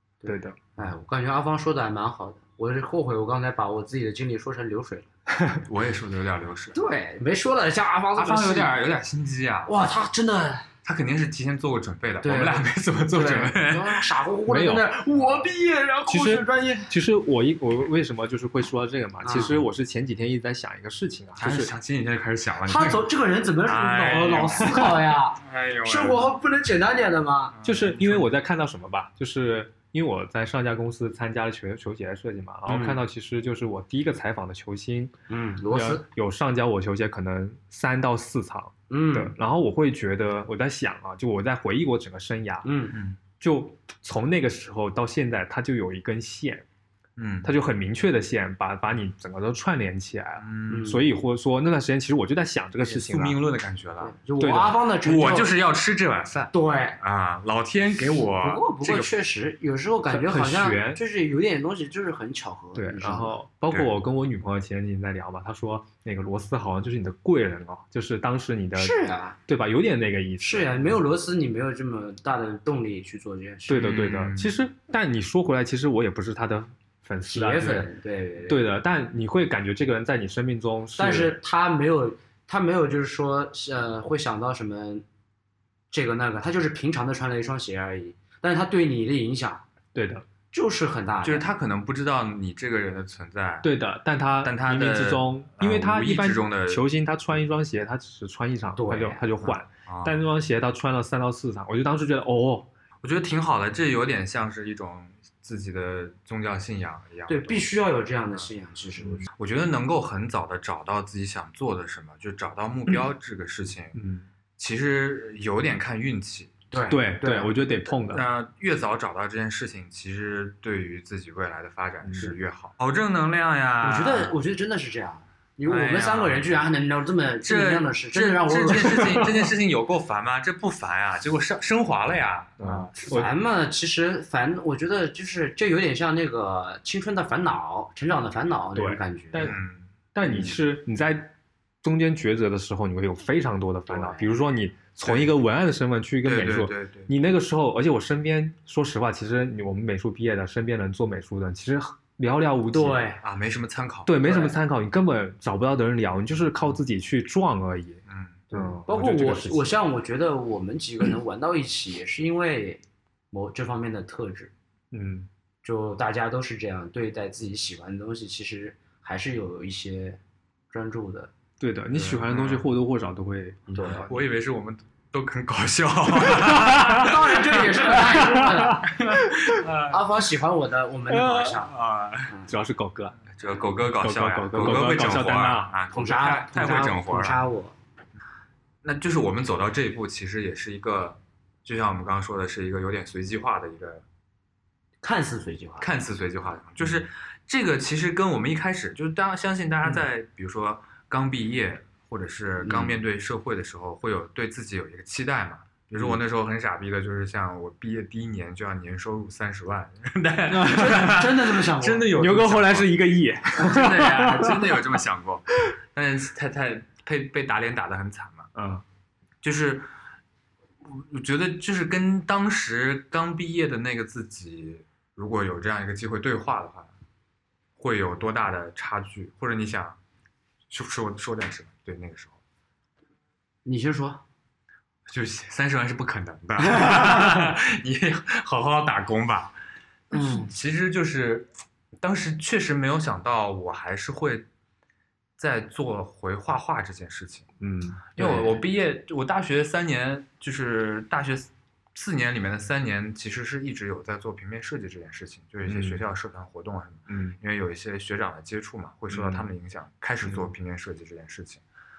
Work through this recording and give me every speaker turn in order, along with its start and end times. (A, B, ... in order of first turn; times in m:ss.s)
0:00.2-0:05.1 A
0:00.3-0:00.6 B
0:05.6-0:06.8 C
0:06.7-0:08.7 A
0:08.2-0:09.7 C
0:09.7-0:10.7 A
0:10.8-0:14.1 C
0:12.2-0:16.9 A
0:14.5-0:14.9 B
0:16.1-0:21.7 B
0:19.2-0:19.6 A
0:21.4-0:23.1 C
0:22.7-0:27.6 A
0:23.6-0:26.3 C
0:27.5-0:28.3 C
0:27.6-0:35.1 B
0:32.7-0:33.0 A
0:35.3-0:36.0 A
0:35.7-0:42.7 B
0:38.9-0:39.3 A
0:42.6-0:43.0 A
0:42.9-0:43.2 C
0:43.4-0:46.6 B
0:47.2-0:47.5 C
0:47.4-0:53.4 B
0:50.4-0:50.9 C
0:50.7-0:51.0 A
0:52.8-0:54.2 C
0:54.0-0:55.5 A
0:54.4-0:54.8 B
0:55.0-0:59.1 C
0:56.5-0:57.0 A
0:58.1-1:03.4 A
1:00.1-1:01.0 B
1:02.8-1:11.0 B
1:08.8-1:09.4 A
1:10.4-1:14.0 A
1:13.7-1:17.9 B
1:13.8-1:14.6 C
1:17.3-1:18.7 A
1:18.5-1:21.4 B
1:21.0-1:25.0 A
1:25.9-1:29.6 A
1:30.0-1:30.2 B
1:30.5-1:31.5 A
1:31.2-1:33.7 C
1:33.6-1:42.7 B
1:34.4-1:36.8 C
1:38.8-1:39.2 A
1:39.4-1:40.2 C
1:43.0-1:47.7 C
1:47.3-1:49.3 A
1:49.0-1:49.3 B
1:49.4-1:54.0 C
1:53.9-1:54.3 B
1:54.6-1:56.6 C
1:56.7-1:57.5 A
1:56.9-1:58.3 B
1:57.9-2:04.4 C
2:02.0-2:02.4 B
2:03.8-2:09.4 A
2:05.6-2:06.6 C
2:07.4-2:13.1 C
2:08.8-2:09.3 B
2:12.6-2:13.3 B
2:13.0-2:19.5 A
2:18.8-2:19.6 B
2:19.4-2:19.9 C
2:20.2-2:21.3 B
2:20.3-2:20.6 A
2:21.8-2:33.1 B
2:23.9-2:24.3 A
2:25.0-2:25.3 C
2:26.2-2:27.1 C
2:32.7-2:33.2 A
2:33.2-2:34.2 C
2:34.1-2:38.0 B
2:34.2-2:34.5 A
2:38.1-2:38.4 C
2:38.5-2:44.5 A
2:38.5-2:39.8 B
2:44.9-2:45.3 B
2:45.6-2:50.2 A
2:50.7-2:51.3 A
2:51.6-2:54.1 B
2:51.9-2:52.7 C
2:53.7-2:54.1 A
2:53.9-2:58.0 C
2:56.2-2:57.2 B
2:56.7-2:59.0 A
2:57.9-2:59.6 B
2:58.8-3:00.0 C
2:59.9-3:01.8 A
3:01.2-3:01.5 B
3:01.4-3:02.4 C
3:02.3-3:02.5 A
3:02.5-3:03.2 B
3:03.3-3:07.4 C
3:04.0-3:05.8 B
3:05.9-3:07.8 A
3:08.8-3:14.0 C
3:15.0-3:15.9 A
3:15.8-3:38.5 C
3:22.6-3:23.0 A
3:30.5-3:31.2 B
3:30.7-3:32.1 A
3:32.1-3:35.0 B
3:38.6-3:38.8 B
3:39.4-3:39.9 C
3:40.8-3:46.9 C
3:47.8-3:50.0 C
3:50.7-3:52.4 C
3:53.6-3:54.2 A
3:55.1-3:59.6 C
4:00.1-4:00.5 A
4:00.1-4:01.5 C
4:02.0-4:04.5 C
4:05.4-4:07.5 C
4:07.6-4:08.5 B
4:08.2-4:21.6 C
4:15.7-4:16.0 B
4:17.1-4:17.4 B
4:19.1-4:19.5 B